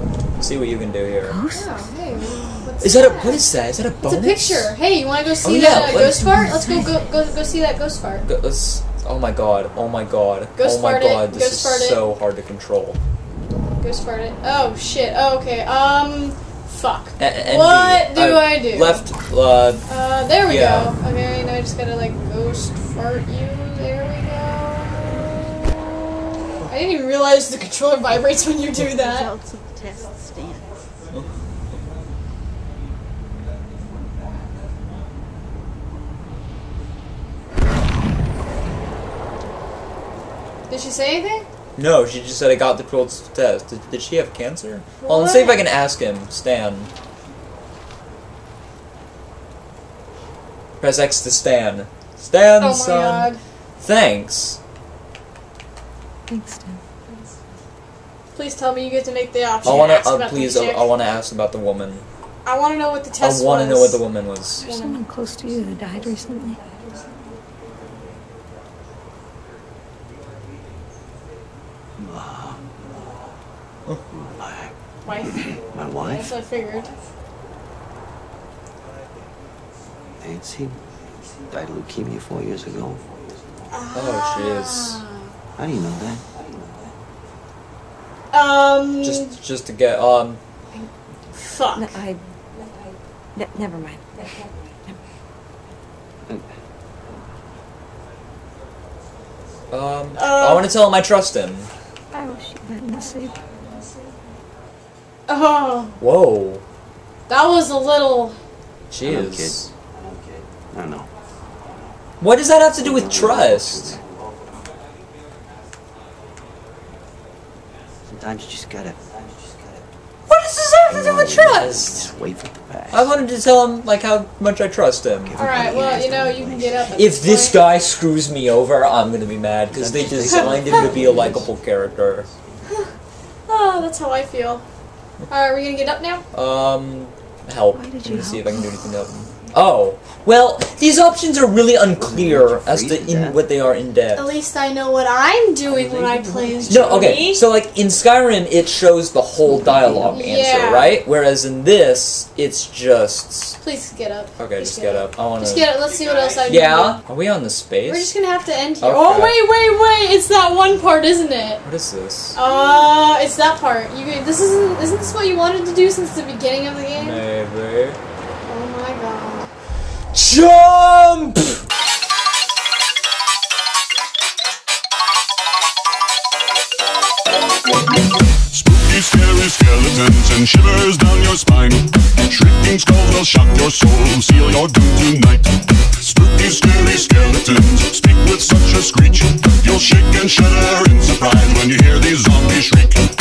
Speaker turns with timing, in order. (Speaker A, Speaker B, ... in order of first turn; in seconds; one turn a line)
Speaker A: 0.4-1.4
Speaker B: 1.0-1.6
Speaker C: 1.5-3.5
Speaker A: 2.8-4.7
Speaker C: 4.0-8.2
Speaker A: 5.5-6.3
Speaker A: 8.2-13.0
Speaker C: 10.6-12.0
Speaker C: 13.8-19.0
Speaker A: 17.2-19.8
Speaker C: 19.9-25.2
Speaker A: 20.5-20.9
Speaker C: 26.6-29.3
Speaker B: 29.4-30.7
Speaker C: 40.7-41.5
Speaker A: 41.8-46.9
Speaker C: 45.0-45.6
Speaker A: 50.8-53.3
Speaker C: 52.6-53.4
Speaker A: 53.8-54.6
Speaker B: 56.3-56.8
Speaker C: 58.3-60.9
Speaker A: 59.6-62.0
Speaker B: 61.5-62.0
Speaker C: 62.4-64.0
Speaker A: 63.2-64.7
Speaker B: 64.4-66.6
Speaker C: 64.6-65.0
Speaker D: 72.0-72.7
Speaker D: 74.1-74.7
Speaker C: 75.0-76.9
Speaker D: 75.5-76.3
Speaker D: 80.2-80.8
Speaker D: 81.5-83.1
Speaker C: 83.7-85.3
Speaker B: 84.0-84.8
Speaker A: 84.0-85.0
Speaker D: 85.6-86.2
Speaker C: 88.3-89.3
Speaker A: 89.1-90.4
Speaker C: 91.3-92.0
Speaker B: 91.8-92.2
Speaker B: 93.3-94.2
Speaker A: 99.7-101.7
Speaker B: 99.7-100.9
Speaker C: 100.1-100.7
Speaker B: 102.1-103.4
Speaker C: 105.3-106.0
Speaker A: 106.0-106.6
Speaker C: 107.3-108.4
Speaker A: 108.9-109.7
Speaker D: 109.0-109.6
Speaker D: 110.6-111.1
Speaker A: 112.2-114.0
Speaker D: 112.8-114.0
Speaker D: 118.1-119.0
Speaker B: 120.3-120.6
Speaker A: 120.3-121.9
Speaker D: 120.9-123.1
Speaker B: 121.2-121.6
Speaker A: 122.9-125.3
Speaker D: 125.2-126.9
Speaker C: 125.3-127.6
Speaker A: 127.0-132.2
Speaker D: 129.7-132.4
Speaker C: 133.5-134.6
Speaker C: 135.3-136.2
Speaker A: 136.3-144.2
Speaker B: 137.6-139.7
Speaker D: 141.9-143.4
Speaker C: 144.1-147.4
Speaker D: 145.7-147.3
Speaker A: 146.7-153.6
Speaker B: 147.1-147.4
Speaker D: 149.4-150.2
Speaker C: 150.1-151.0
Speaker C: 153.6-157.0
Speaker A: 154.4-155.7
Speaker B: 156.5-156.8
Speaker A: 156.5-158.0
Speaker C: 157.9-161.6
Speaker A: 158.8-159.3
Speaker A: 161.6-162.3
Speaker C: 162.3-167.2
Speaker A: 167.0-168.0
Speaker C: 168.5-169.5
Speaker A: 170.1-171.4
Speaker B: 170.3-171.0
Speaker E: 178.5-193.0